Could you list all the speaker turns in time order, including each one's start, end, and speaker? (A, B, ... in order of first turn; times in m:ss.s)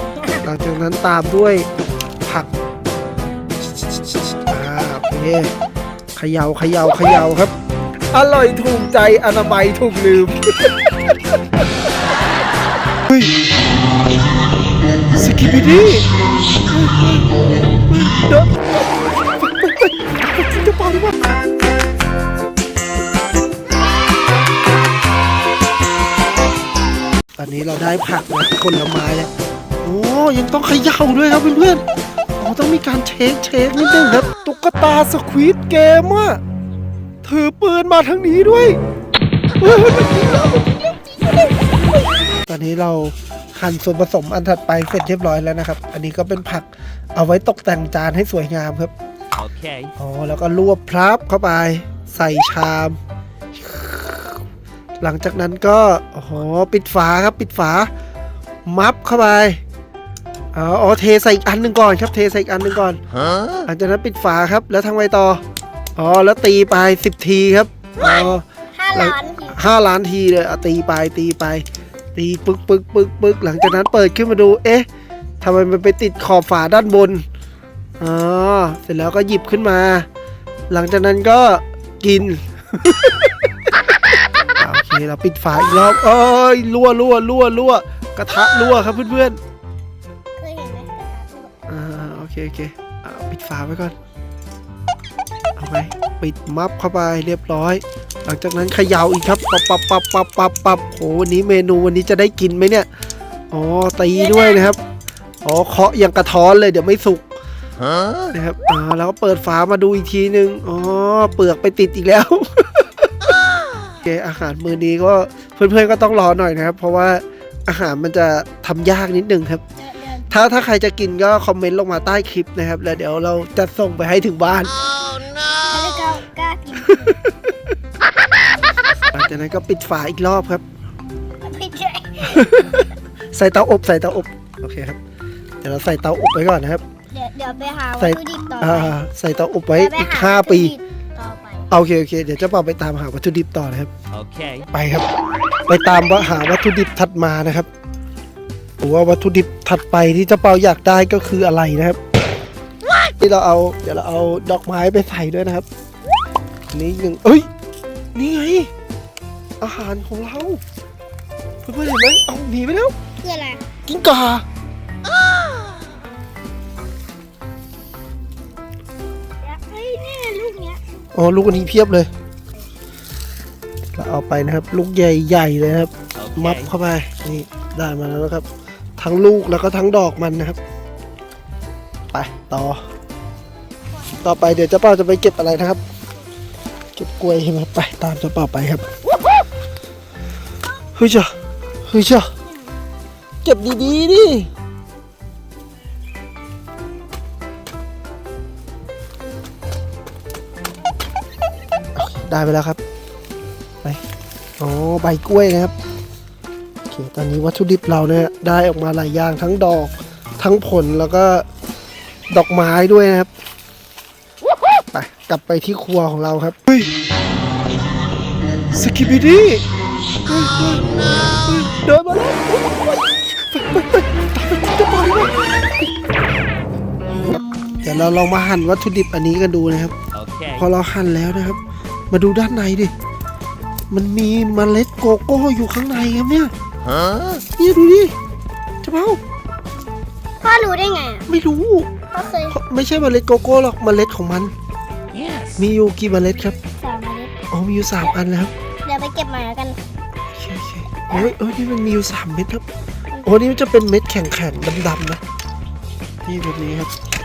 0:00.4-0:01.7 A
0:02.2-0:02.5 A
0:04.3-0:05.5 A
0:06.2-0:07.5 A
0:08.1-0:11.7 A
0:15.1-0:16.1 A
0:16.7-0:21.4 A
0:27.4-0:29.3 A
0:29.8-0:31.8 A
0:32.4-0:36.4 A
0:37.2-0:38.8 A
0:39.6-0:40.7 A
0:40.2-0:40.8 B
0:42.4-0:48.9 A
0:49.4-0:49.9 C
0:50.0-0:53.0 A
0:53.6-0:54.4 A
0:55.0-0:57.9 A
0:58.7-0:59.6 A
1:00.5-1:05.4 A
1:06.0-1:08.4 A
1:08.0-1:09.7 B
1:09.0-1:11.6 A
1:12.2-1:14.9 A
1:15.4-1:17.2 A
1:18.0-1:20.1 A
1:20.7-1:23.7 A
1:24.6-1:29.4 A
1:30.4-1:31.5 B
1:31.7-1:34.0 A
1:35.6-1:42.9 A
1:43.5-1:44.8 A
1:44.1-1:44.8 B
1:45.4-1:47.2 A
1:48.3-1:53.1 A
1:54.0-1:59.6 A
1:59.8-2:00.4 B
2:00.3-2:04.8 A
2:05.4-2:07.2 B
2:06.8-2:07.5 A
2:09.1-2:10.6 A
2:11.4-2:12.5 B
2:12.2-2:15.0 A
2:15.6-2:16.8 A
2:17.1-2:19.0 B
2:18.0-2:20.8 A
2:19.7-2:21.7 B
2:21.7-2:23.9 A
2:24.1-2:24.7 C
2:24.7-2:25.1 A
2:25.7-2:27.7 A
2:28.8-2:32.0 A
2:33.0-2:35.7 A
2:36.7-2:37.5 A
2:38.2-2:38.7 A
2:39.6-2:40.6 A
2:41.6-2:43.0 A
2:43.2-2:43.6 B
2:43.8-2:44.4 A
2:49.4-2:50.8 B
2:51.1-2:52.1 A
2:54.0-2:58.5 A
2:56.2-2:56.7 C
2:59.0-3:00.6 A
3:02.1-3:02.8 A
3:04.2-3:05.8 A
3:07.0-3:08.9 A
3:11.0-3:11.3 A
3:11.9-3:12.3 A
3:13.4-3:14.5 A
3:22.0-3:22.8 A
3:24.6-3:25.7 A
3:26.9-3:31.5 A
3:32.3-3:33.3 A
3:34.9-3:36.9 A
3:38.7-3:39.6 A
3:40.3-3:45.6 A
3:47.3-3:48.2 B
3:47.8-3:50.0 A
3:50.2-3:50.6 C
3:50.6-3:51.6 A
3:52.1-3:52.9 A
3:53.9-3:56.5 A
3:56.9-3:57.4 C
3:57.5-3:58.1 A
3:58.8-3:59.2 A
4:00.4-4:01.4 B
4:01.3-4:01.9 A
4:02.1-4:02.6 B
4:02.5-4:04.5 A
4:05.1-4:05.6 C
4:05.6-4:06.6 A
4:06.7-4:07.4 B
4:07.5-4:08.5 A
4:08.8-4:09.8 B
4:10.3-4:12.6 A
4:13.2-4:15.2 A
4:16.2-4:16.9 A